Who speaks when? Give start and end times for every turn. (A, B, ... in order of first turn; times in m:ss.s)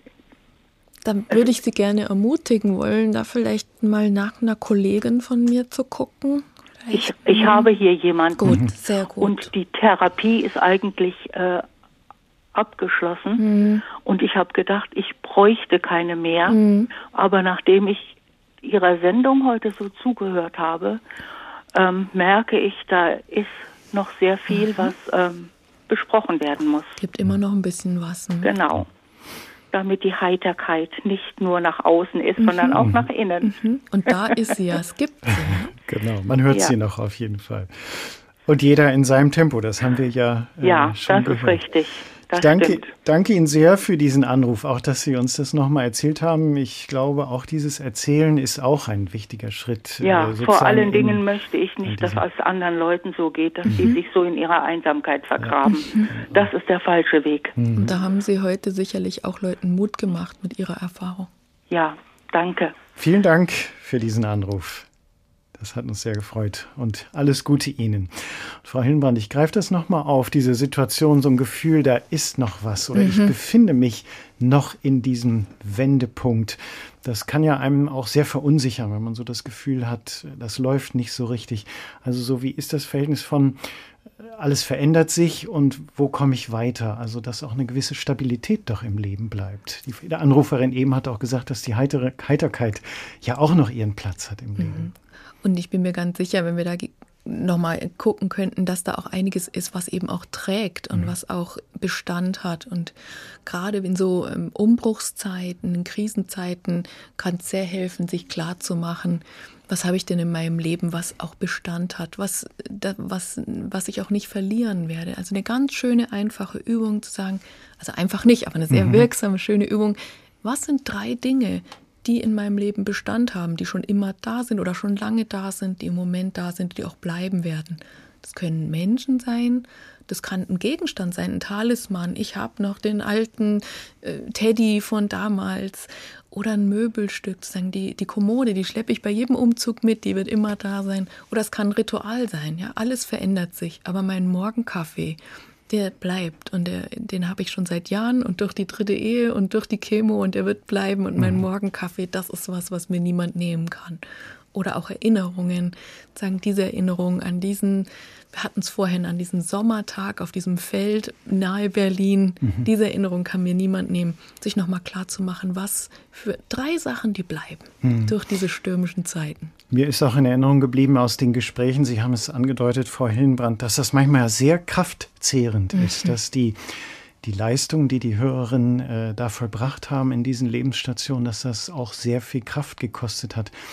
0:01.0-0:07.7 A
0:06.9-0:08.6 B
0:08.4-0:09.5 A
0:09.2-0:11.6 B
0:12.6-0:13.4 B
0:13.4-0:13.8 A
0:14.0-0:21.0 B
0:16.5-0:16.9 A
0:21.7-0:27.0 B
0:27.0-0:28.6 A
0:28.4-0:28.9 B
0:29.7-0:33.5 B
0:32.4-0:32.7 A
0:32.8-0:33.1 C
0:33.4-0:35.7 A
0:35.4-0:41.7 C
0:40.6-0:42.9 B
0:42.3-0:51.3 C
0:50.0-0:57.6 B
0:51.8-0:52.2 C
0:53.7-0:53.9 C
0:55.4-0:56.5 C
0:57.6-0:58.0 C
0:57.7-1:01.3 A
1:01.7-1:02.7 B
1:03.0-1:04.9 C
1:05.6-1:34.9 C
1:13.0-1:13.3 A
1:34.6-1:34.9 A
1:35.4-1:42.9 A
1:43.4-2:34.0 A
1:58.7-1:59.1 C
2:34.5-2:49.5 A
2:47.8-2:48.2 C
2:49.7-3:03.5 C
2:55.8-2:56.1 A